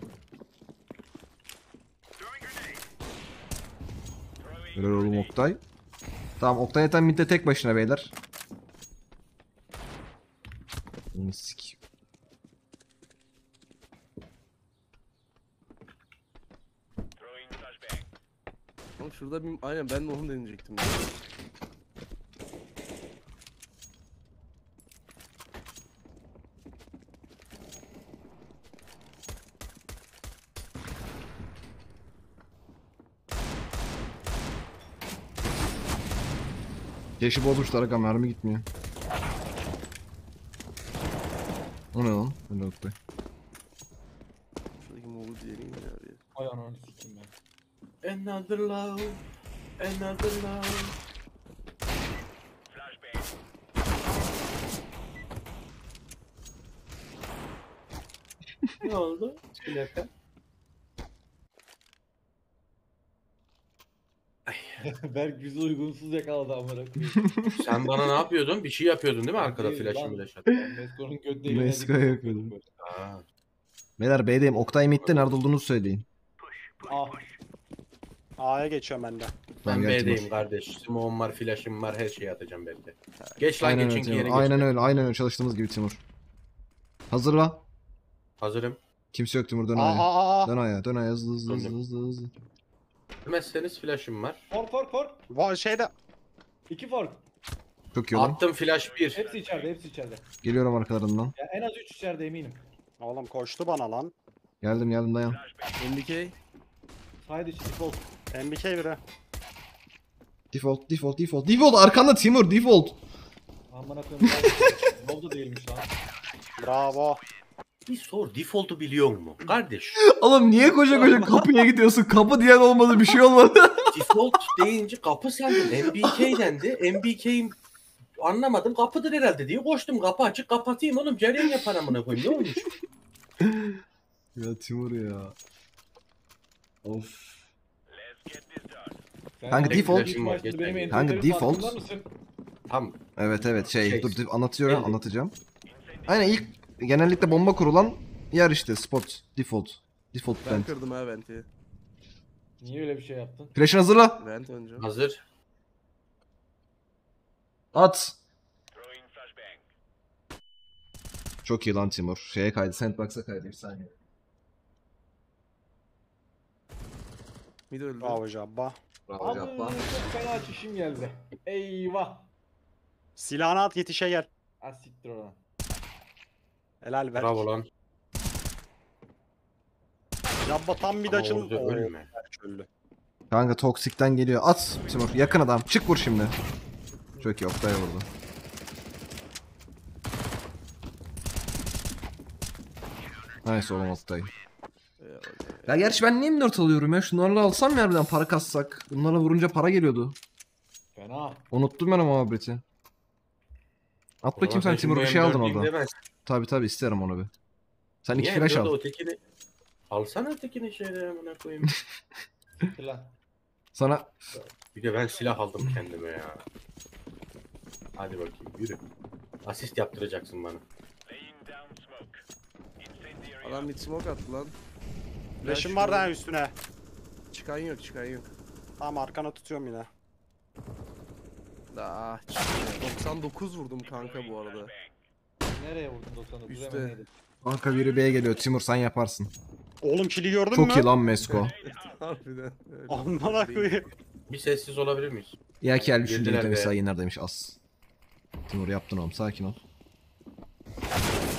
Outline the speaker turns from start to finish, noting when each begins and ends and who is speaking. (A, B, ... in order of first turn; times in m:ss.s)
0:04.7-0:05.6 A
0:06.4-0:08.1 A
0:11.1-0:11.8 A
0:19.0-0:21.1 B
0:37.2-0:38.6 A
0:41.9-0:42.9 A
0:44.8-0:46.2 B
0:46.3-0:47.3 C
0:48.0-0:49.2 D
0:49.8-0:51.0 D
0:58.8-1:00.1 D
1:04.5-1:04.8 D
1:04.8-1:07.3 C
1:07.2-1:07.9 A
1:07.6-1:10.4 D
1:09.4-1:12.7 C
1:11.4-1:12.5 A
1:12.8-1:13.2 D
1:14.0-1:16.0 A
1:15.0-1:15.3 D
1:16.8-1:17.2 C
1:18.4-1:19.3 E
1:19.6-1:20.4 A
1:19.6-1:24.7 D
1:23.6-1:26.0 A
1:27.1-1:27.6 A
1:28.4-1:28.8 D
1:29.1-1:32.3 A
1:29.8-1:30.5 E
1:31.4-1:31.7 D
1:33.2-1:34.4 D
1:34.5-1:35.2 C
1:35.3-1:35.9 E
1:36.7-1:37.2 C
1:37.9-1:38.4 A
1:38.1-1:39.2 D
1:39.1-1:40.2 C
1:40.4-1:41.3 A
1:41.4-1:42.6 C
1:43.0-1:44.1 E
1:44.6-1:45.4 A
1:45.8-1:46.4 B
1:47.2-1:48.1 C
1:48.3-1:49.0 E
1:50.5-1:53.0 A
1:53.7-1:55.9 C
1:54.3-1:54.6 A
1:56.6-1:57.2 E
1:57.8-2:00.0 D
2:00.0-2:04.5 A
2:00.6-2:01.4 C
2:03.9-2:07.5 D
2:05.6-2:06.3 A
2:08.2-2:12.7 D
2:13.4-2:13.8 A
2:14.4-2:15.4 A
2:16.8-2:17.5 A
2:19.4-2:22.1 C
2:19.5-2:20.2 A
2:19.6-2:21.1 D
2:20.9-2:21.8 A
2:22.7-2:23.0 D
2:23.2-2:25.4 A
2:23.7-2:25.0 D
2:26.0-2:30.7 A
2:30.4-2:31.5 B
2:32.6-2:33.6 C
2:33.5-2:34.2 A
2:34.2-2:34.9 B
2:34.8-2:35.2 D
2:37.7-2:38.2 A
2:41.4-2:43.9 A
2:47.7-2:48.2 B
2:48.0-2:48.8 E
2:49.1-2:49.8 A
2:49.2-2:52.3 C
2:53.2-2:54.3 E
2:54.6-2:55.4 C
2:56.8-2:57.5 E
2:57.2-2:57.7 D
3:00.4-3:02.7 E
3:01.0-3:02.1 D
3:03.3-3:06.4 A
3:07.2-3:08.1 A
3:13.4-3:14.3 A
3:15.0-3:15.9 B
3:15.7-3:20.2 A
3:20.9-3:21.5 C
3:21.5-3:22.6 A
3:24.2-3:25.7 A
3:24.3-3:25.9 D
3:26.2-3:27.3 A
3:28.0-3:28.7 A
3:28.1-3:29.2 D
3:29.9-3:31.7 D
3:32.6-3:33.1 C
3:33.7-3:34.3 A
3:34.3-3:36.4 D
3:38.0-3:38.8 D
3:39.4-3:40.6 D
3:43.4-3:44.5 B
3:45.4-3:46.1 B
3:45.4-3:46.5 E
3:47.3-3:48.3 B
3:48.8-3:49.9 E
3:51.7-3:54.7 B
3:55.5-3:57.1 C
3:56.5-3:57.0 B
3:57.4-3:59.3 A
3:59.8-4:00.9 E
4:00.5-4:01.5 A
4:01.3-4:03.8 B
4:02.9-4:03.9 E
4:04.3-4:05.4 D
4:05.6-4:07.6 A
4:06.0-4:06.7 D
4:08.5-4:09.6 A